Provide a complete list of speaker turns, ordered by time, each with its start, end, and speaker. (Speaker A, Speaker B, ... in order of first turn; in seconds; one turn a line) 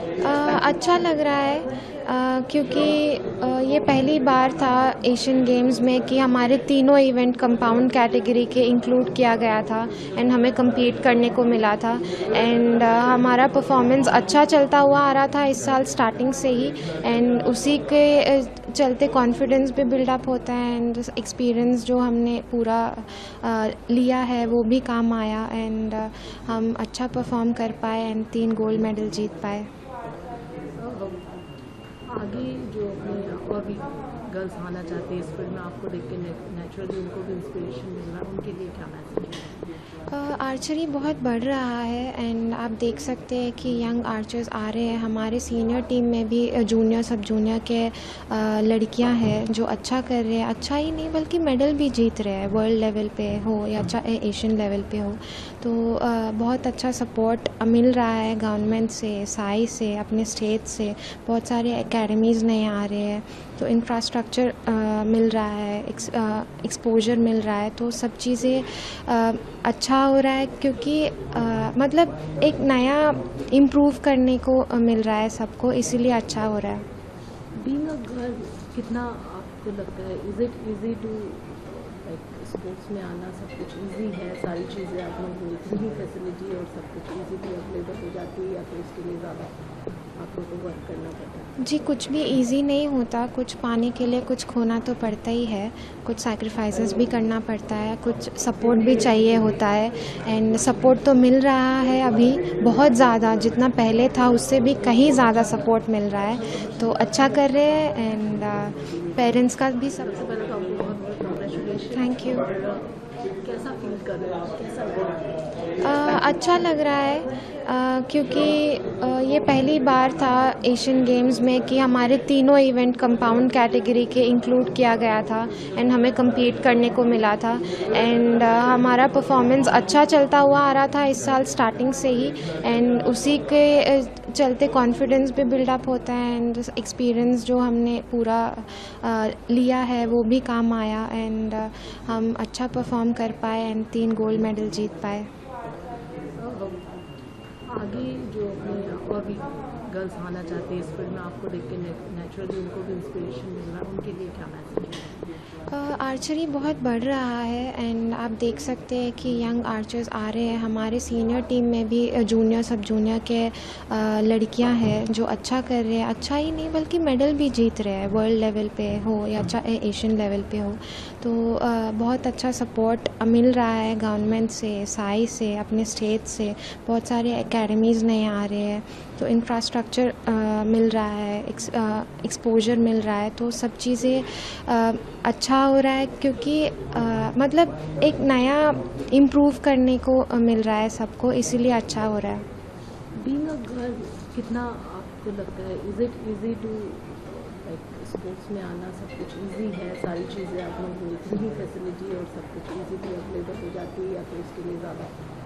Speaker A: 0.2-29.7
Speaker B: 30.8-31.3
Speaker B: 32.1-39.7
Speaker A: 40.1-76.9
Speaker B: 77.6-89.5
Speaker B: 90.2-91.5
Speaker A: 91.6-110.1
Speaker B: 109.9-115.4
Speaker A: 111.9-112.5
Speaker A: 115.8-145.3
Speaker B: 146.4-146.8
Speaker B: 147.7-155.3
Speaker A: 155.7-192.5
Speaker B: 193.2-205.1